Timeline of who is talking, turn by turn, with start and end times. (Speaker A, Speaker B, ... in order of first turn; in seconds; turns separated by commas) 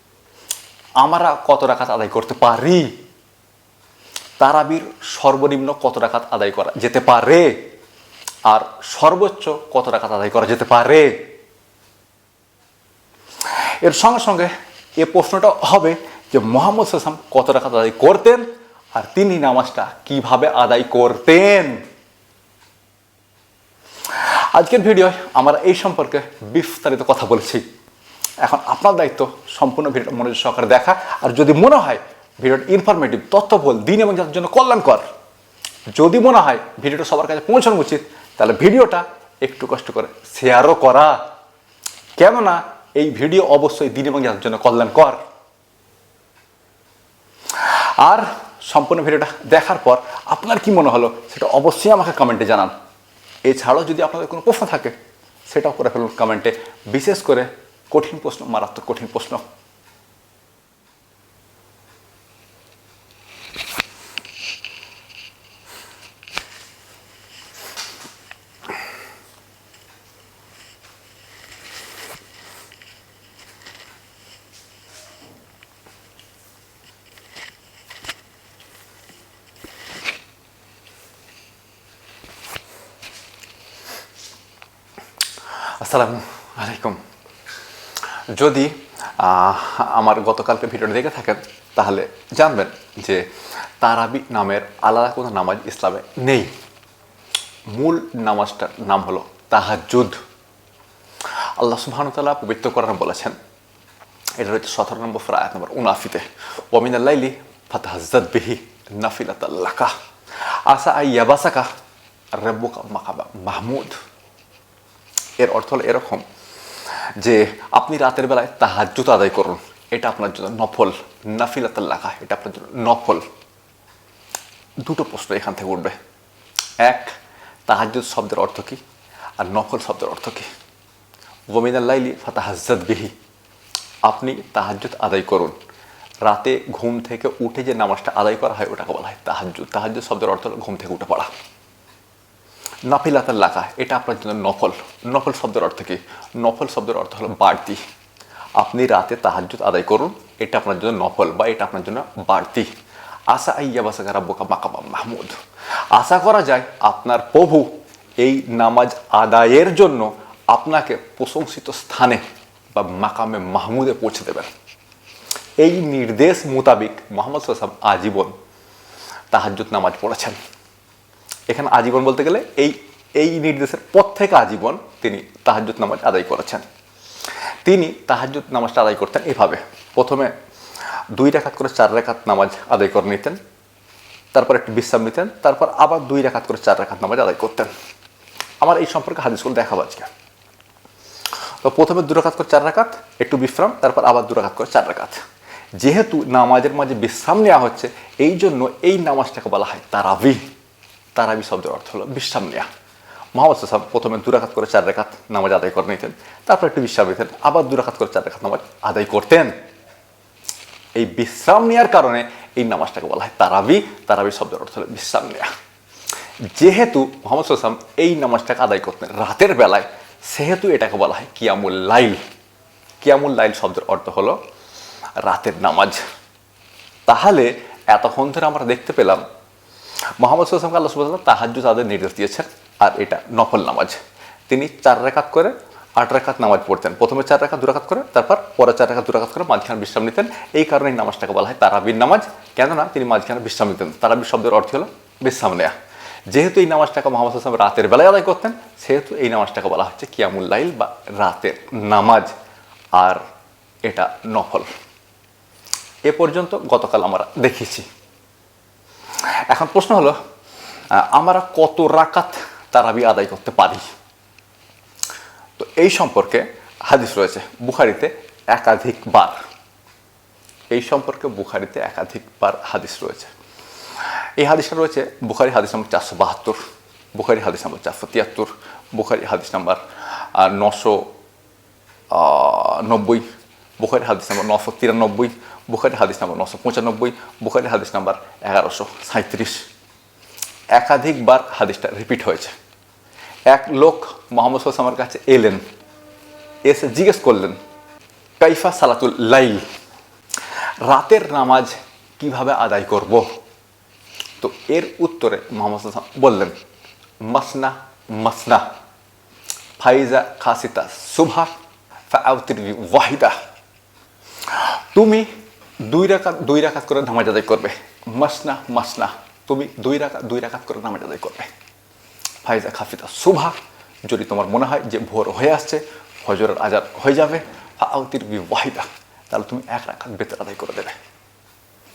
Speaker A: 1.0-2.9, Speaker A: 4.4-7.7, Speaker A: 8.4-11.3, Speaker A: 13.6-21.8, Speaker A: 24.1-27.6, Speaker A: 28.4-35.0, Speaker A: 35.9-41.2, Speaker A: 42.2-45.2, Speaker A: 47.5-52.7, Speaker A: 53.4-54.9, Speaker A: 55.5-59.4, Speaker A: 85.6-87.0, Speaker A: 88.3-96.5, Speaker A: 97.7-100.2, Speaker A: 101.4-103.4, Speaker A: 104.4-111.7, Speaker A: 112.3-114.0, Speaker A: 115.4-116.2, Speaker A: 117.2-123.2, Speaker A: 124.8-126.0, Speaker A: 126.8-127.1, Speaker A: 127.7-128.8, Speaker A: 129.4-130.5, Speaker A: 131.5-133.1, Speaker A: 134.0-135.6, Speaker A: 136.2-141.3, Speaker A: 142.8-147.8, Speaker A: 148.6-152.7, Speaker A: 153.3-155.3, Speaker A: 155.9-162.2, Speaker A: 162.7-164.5, Speaker A: 165.6-168.3, Speaker A: 169.3-170.4, Speaker A: 171.5-176.6, Speaker A: 177.6-180.3, Speaker A: 181.1-183.4, Speaker A: 184.3-187.7, Speaker A: 188.6-190.1, Speaker A: 191.6-195.2, Speaker A: 195.7-200.4, Speaker A: 201.1-202.7, Speaker A: 203.3-209.6, Speaker A: 210.9-215.5, Speaker A: 216.4-222.2, Speaker A: 223.0-224.4, Speaker A: 225.2-226.0, Speaker A: 227.1-229.2, Speaker A: 230.2-245.7, Speaker A: 246.3-252.3, Speaker A: 252.9-253.2, Speaker A: 253.8-254.7, Speaker A: 256.0-257.9, Speaker A: 259.5-260.2, Speaker A: 260.9-263.8, Speaker A: 265.6-269.4, Speaker A: 270.7-273.3, Speaker A: 274.4-276.6, Speaker A: 277.1-281.1, Speaker A: 282.1-283.2, Speaker A: 283.8-289.7, Speaker A: 290.7-292.5, Speaker A: 293.5-295.6, Speaker A: 296.6-297.6, Speaker A: 298.4-299.6, Speaker A: 300.8-303.3, Speaker A: 304.4-306.5, Speaker A: 307.2-308.7, Speaker A: 309.8-311.5, Speaker A: 312.1-313.4, Speaker A: 314.4-321.5, Speaker A: 322.4-330.9